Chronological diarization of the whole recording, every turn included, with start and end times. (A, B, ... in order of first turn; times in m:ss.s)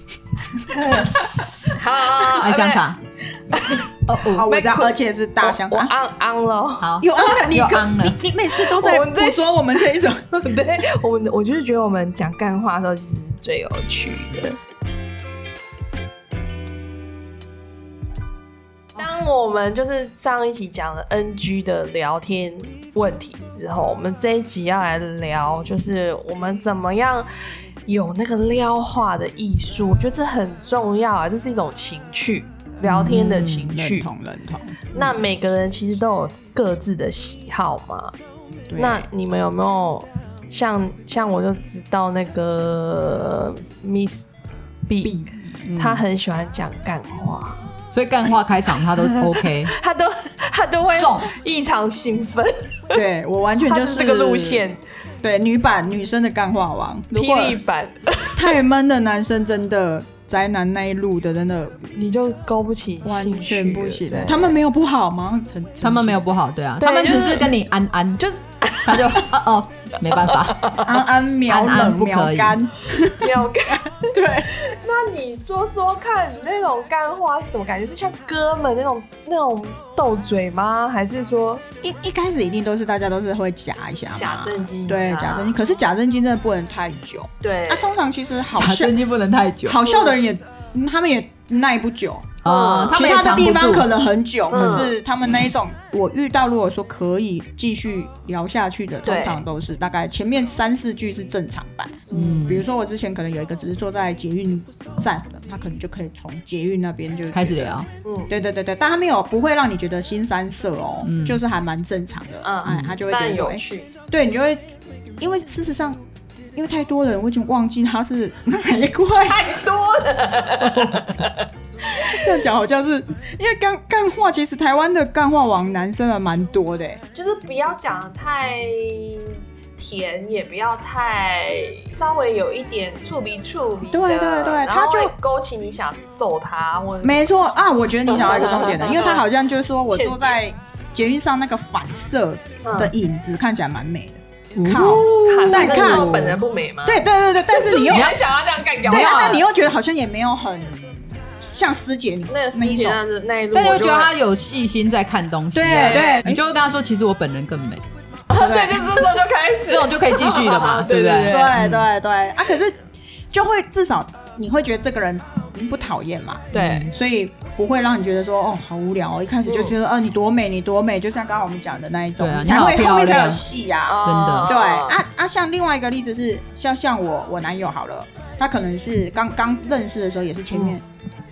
0:00.6-0:01.2 A
0:00.7-0:02.9 B
0:02.4-0:03.0 C
0:03.5-0:03.9 B
0:04.1-0:04.5 C
0:04.3-0:05.9 A
0:04.4-0:07.5 B
0:06.8-0:08.2 C
0:07.0-0:10.2 A
0:08.5-0:14.6 B
0:19.0-0:27.3 B
0:27.8-0:34.1 B
0:32.8-0:33.7 C
0:33.5-0:35.2 A
0:34.9-0:38.2 B
0:38.7-0:39.1 A
0:38.8-0:44.2 B
0:44.9-0:45.2 B
0:45.0-0:45.5 A
0:45.7-0:46.0 C
0:45.7-0:47.7 B
0:47.9-0:49.7 C
0:48.8-0:53.0 B
0:51.0-0:51.3 C
0:52.9-0:54.7 A
0:53.6-0:54.8 B
0:55.2-0:57.6 A
0:57.1-0:58.6 B
0:58.4-1:01.9 A
1:01.9-1:04.6 B
1:03.0-1:06.2 A
1:05.8-1:08.2 C
1:06.8-1:07.5 B
1:08.2-1:09.3 B
1:08.9-1:10.7 C
1:10.0-1:11.0 B
1:10.8-1:14.5 A
1:11.5-1:12.6 C
1:13.2-1:21.6 B
1:21.8-1:29.0 A
1:24.2-1:25.6 B
1:27.4-1:27.9 B
1:28.6-1:29.8 C
1:29.6-1:54.6 A
1:29.8-1:30.2 B
1:32.4-1:33.9 C
1:32.4-1:33.4 B
1:34.5-1:34.9 B
1:34.6-1:34.9 C
1:39.0-1:39.4 B
1:42.1-1:42.4 B
1:42.1-1:42.7 C
1:47.3-1:47.9 C
1:48.0-1:48.3 B
1:51.0-1:51.4 C
1:52.4-1:53.9 B
1:52.6-1:53.0 C
1:55.2-1:56.0 A
1:56.6-1:59.6 A
1:59.2-2:02.3 B
2:00.7-2:01.0 C
2:02.1-2:07.0 A
2:07.1-2:17.4 B
2:13.9-2:15.1 A
2:17.0-2:26.3 A
2:18.1-2:19.2 B
2:19.9-2:20.4 B
2:22.6-2:23.0 B
2:24.6-2:26.4 C
2:24.8-2:29.4 B
2:26.8-2:28.2 A
2:27.9-2:28.2 C
2:28.8-2:29.4 C
2:28.8-2:33.0 A
2:32.3-2:34.1 B
2:33.5-2:37.8 C
2:35.5-2:36.4 A
2:35.7-2:36.3 B
2:38.3-2:41.6 B
2:38.3-2:39.0 A
2:39.7-2:41.9 C
2:41.2-2:42.7 A
2:43.3-3:00.8 A
2:46.5-2:46.9 B
2:46.5-2:46.9 C
2:49.5-2:49.8 B
2:52.2-2:53.5 C
2:53.9-2:55.0 B
2:54.0-2:54.6 C
3:00.5-3:00.8 B